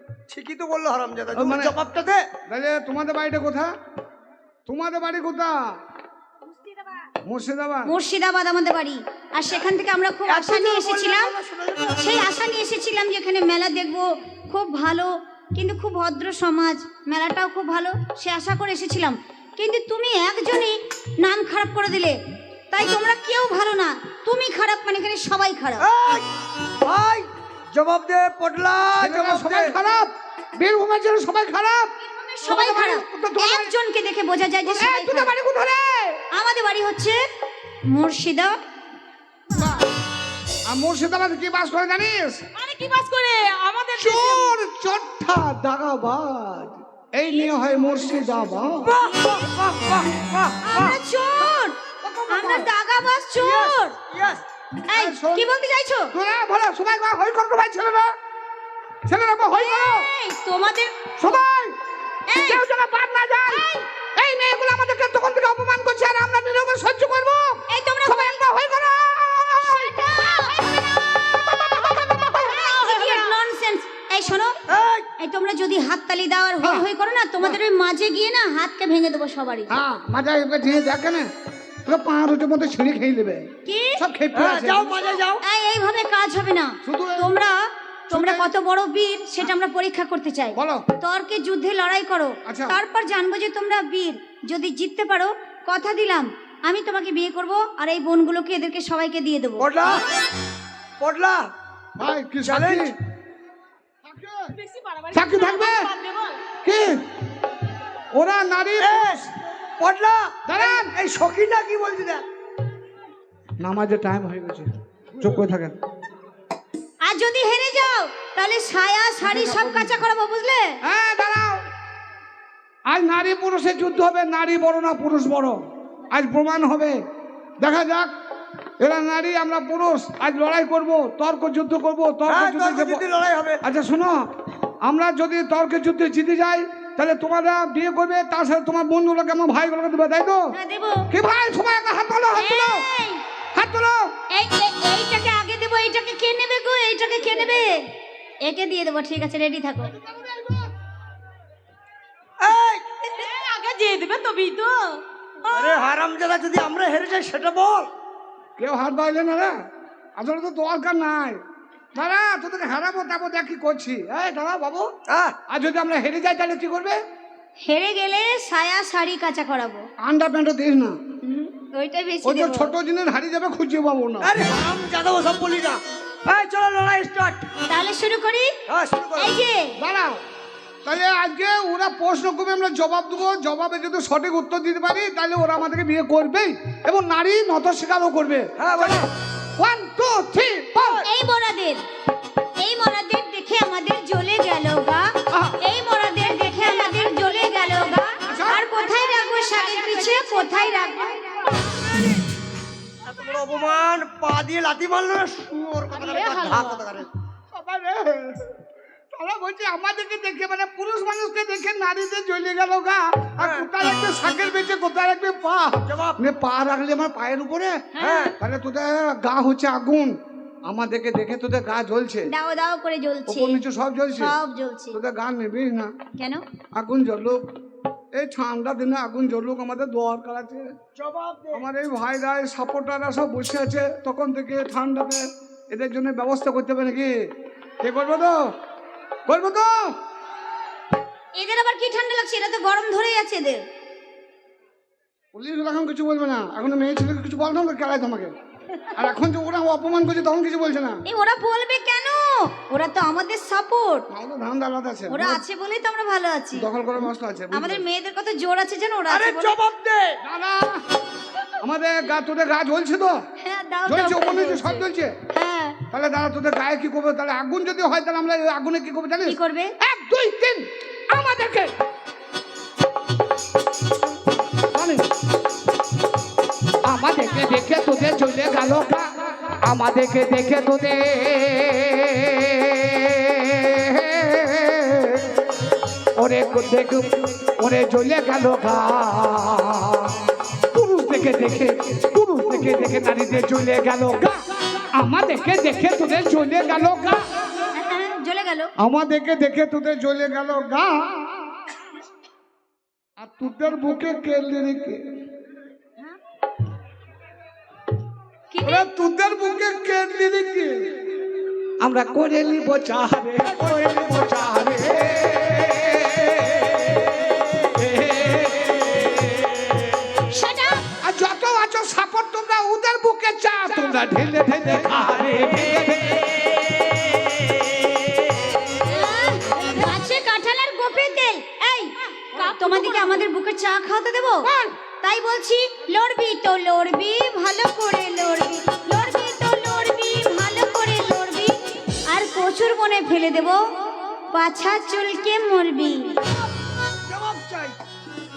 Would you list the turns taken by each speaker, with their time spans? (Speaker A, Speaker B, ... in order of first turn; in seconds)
Speaker A: 0.3-2.3, 10.3-12.2, 25.8-26.3, 26.8-29.8, 48.8-51.0, 53.4-54.4, 74.7-75.1, 84.3-85.4, 99.6-100.0, 101.0-101.5, 102.4-103.0, 108.8-112.2, 132.3-133.6, 152.4-153.0, 155.5-157.9, 165.1-165.4, 174.2-177.5, 178.7-179.4, 188.6-189.1, 190.8-191.1, 203.1-207.1, 213.4-213.7, 215.9-216.2, 218.0-218.4, 231.0-231.7, 259.1-260.2, 347.1-347.8
Speaker B: 1.3-1.8, 2.5-3.7, 4.7-5.8, 7.2-7.9, 29.0-31.9, 32.4-33.7, 34.7-36.2, 39.5-39.9, 40.7-42.4, 44.0-49.0, 52.0-52.7, 54.9-55.5, 56.1-58.1, 59.1-60.1, 61.2-61.8, 62.4-70.5, 71.5-71.8, 79.7-81.3, 81.9-85.1, 86.8-87.3, 88.1-88.5, 90.5-90.8, 92.5-92.8, 102.0-103.0, 104.0-104.5, 105.1-105.9, 106.6-107.0, 108.1-109.3, 110.5-110.9, 113.6-115.8, 119.2-120.0, 120.8-121.6, 122.9-127.0, 127.6-128.1, 128.8-133.0, 133.6-134.2, 134.8-140.5, 141.1-142.9, 143.5-144.1, 150.0-150.7, 158.6-159.5, 160.2-161.4, 161.9-164.9, 165.5-167.0, 170.0-171.0, 172.2-174.4, 179.8-180.2, 180.8-191.0, 195.3-195.6, 198.3-199.1, 207.5-208.6, 209.1-217.8, 218.4-220.2, 220.7-222.3, 223.3-224.3, 224.9-225.9, 226.8-227.4, 228.1-230.7, 231.5-237.1, 237.8-238.4, 239.3-240.0, 245.3-248.3, 249.0-251.0, 254.1-255.4, 256.6-257.8, 260.2-260.9, 261.6-263.2, 263.9-265.1, 265.9-271.7, 274.7-275.1, 276.9-285.6, 286.2-294.4, 294.9-297.2, 298.8-301.8, 303.2-305.2, 308.6-311.2, 311.8-319.7, 321.0-326.5, 334.5-334.7
Speaker C: 7.9-11.3, 12.0-22.2, 22.7-25.9, 32.1-35.4, 36.3-37.2, 37.9-38.6, 50.7-51.8, 52.3-54.0, 54.9-56.1, 59.5-61.4, 62.3-62.6, 63.5-63.8, 67.7-68.4, 69.6-70.9, 71.8-74.6, 75.2-79.7, 83.7-84.0, 85.4-99.7, 117.0-120.8, 140.5-141.1, 142.3-143.2, 144.3-147.8, 148.4-149.9, 167.7-169.9, 171.2-172.7, 177.7-178.5, 179.2-179.8, 191.1-191.8, 192.6-201.6, 222.3-223.6, 224.2-225.0, 226.2-226.4, 241.4-243.6, 251.1-254.1, 255.1-256.7, 257.5-259.6, 263.4-265.8, 269.3-269.7, 297.8-298.7, 308.5-308.9, 320.3-320.9, 328.7-334.5, 335.0-346.2
Speaker D: 42.6-44.5, 71.9-73.3, 104.5-106.4, 153.1-155.8, 198.8-201.7, 205.9-206.9, 217.9-218.3, 332.2-333.3